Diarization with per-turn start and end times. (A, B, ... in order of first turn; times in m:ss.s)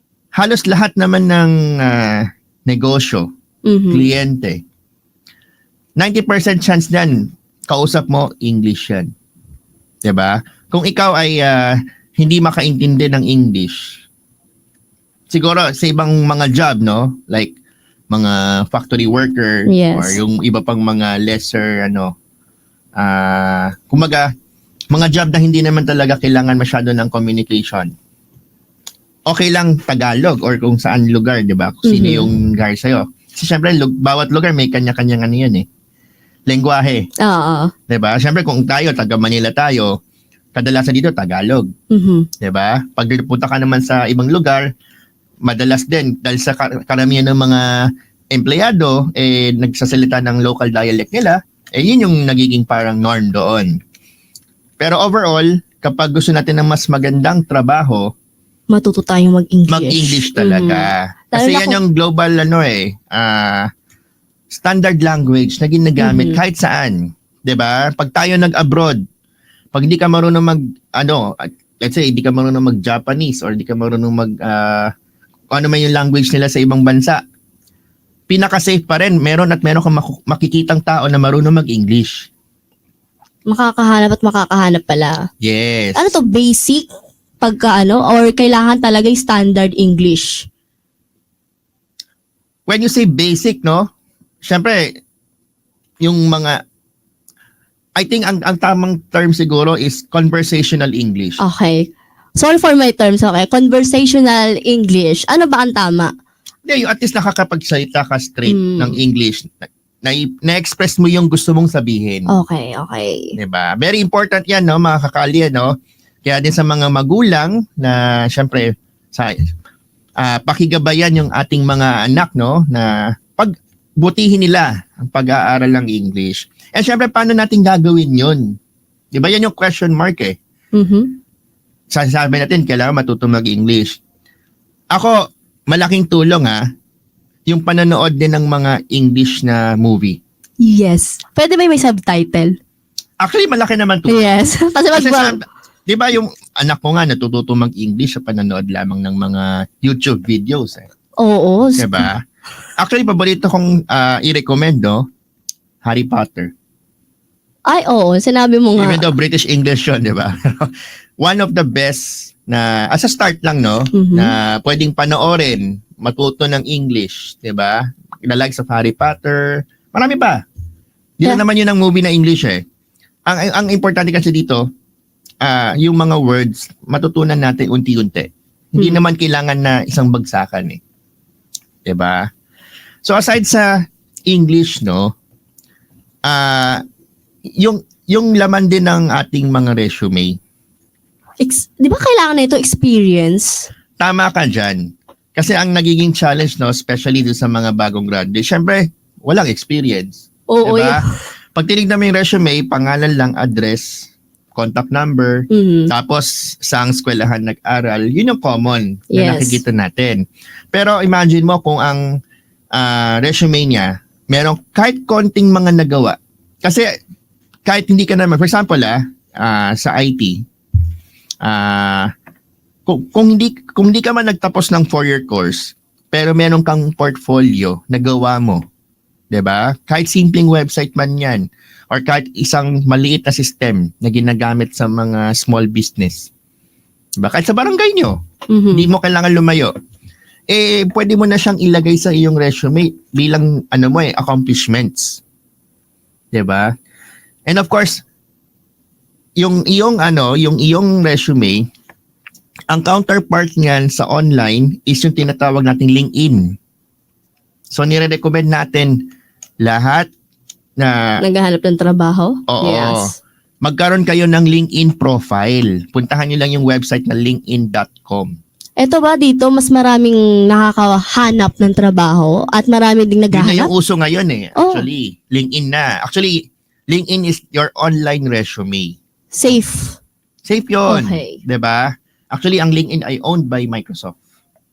0:00.4-0:03.3 A
0:03.7-0:04.1 B
0:03.9-0:04.6 A
0:06.0-0:09.1 A
0:10.0-0:13.9 A
0:15.3-0:17.5 A
0:18.1-0:22.1 A
0:19.7-0:20.2 B
0:23.0-0:24.3 A
0:24.9-0:27.9 A
0:29.3-0:35.6 A
0:31.8-0:32.3 B
0:36.5-0:37.1 A
0:37.2-0:37.7 B
0:37.9-0:40.0 A
0:40.6-0:41.7 A
0:41.9-0:42.3 B
0:42.4-0:44.7 A
0:45.4-0:47.7 A
0:48.3-0:53.8 A
0:54.8-0:58.1 A
0:58.7-1:01.8 B
0:59.7-1:03.7 A
1:04.5-1:09.0 A
1:06.0-1:06.4 B
1:09.7-1:14.9 A
1:15.5-1:17.2 A
1:18.3-1:22.3 A
1:23.5-1:25.3 B
1:25.4-1:26.1 A
1:26.0-1:26.9 B
1:27.4-1:30.5 B
1:32.7-1:33.9 A
1:34.4-1:34.9 A
1:36.0-1:36.6 A
1:38.0-1:41.4 A
1:41.4-1:46.1 B
1:46.7-1:52.3 A
1:48.5-1:49.0 B
1:52.3-1:53.4 B
1:53.4-1:55.7 A
1:56.2-1:59.4 A
2:00.2-2:08.5 A
2:09.1-2:10.4 A
2:10.8-2:11.2 B
2:11.9-2:14.0 A
2:15.7-2:16.6 A
2:17.5-2:20.2 A
2:20.6-2:22.6 B
2:23.2-2:24.3 A
2:24.1-2:25.4 B
2:24.9-2:30.9 A
2:31.2-2:32.1 B
2:31.8-2:32.2 A
2:32.8-2:35.1 A
2:35.8-2:36.5 A
2:37.7-2:39.1 B
2:38.8-2:50.4 A
2:43.9-2:44.3 B
2:51.2-2:52.6 A
2:53.3-2:54.6 A
2:55.4-3:00.8 A
3:01.8-3:02.3 A
3:03.0-3:05.1 A
3:06.3-3:06.8 A
3:07.6-3:10.4 A
3:11.4-3:13.7 B
3:14.0-3:14.8 A
3:15.4-3:21.0 A
3:20.5-3:21.1 B
3:21.6-3:30.2 A
3:25.5-3:25.9 B
3:29.1-3:29.6 B
3:30.7-3:32.0 A
3:32.7-3:36.9 A
3:37.7-3:40.4 A
3:41.4-3:42.1 A
3:42.9-3:48.6 A
3:49.3-3:56.3 A
3:57.2-3:58.2 A
3:58.5-3:58.9 B
3:58.7-3:59.7 A
4:00.5-4:05.2 A
4:06.3-4:06.7 A
4:07.5-4:08.0 A
4:09.4-4:11.6 A
4:12.7-4:16.6 A
4:17.7-4:19.1 A
4:19.6-4:20.1 A
4:20.8-4:21.2 A
4:21.2-4:23.2 B
4:22.5-4:23.1 A
4:23.6-4:28.4 A
4:28.8-4:33.7 B
4:33.3-4:39.0 A
4:34.6-4:34.9 B
4:39.3-4:40.0 B
4:40.4-4:44.2 A
4:40.9-4:41.4 B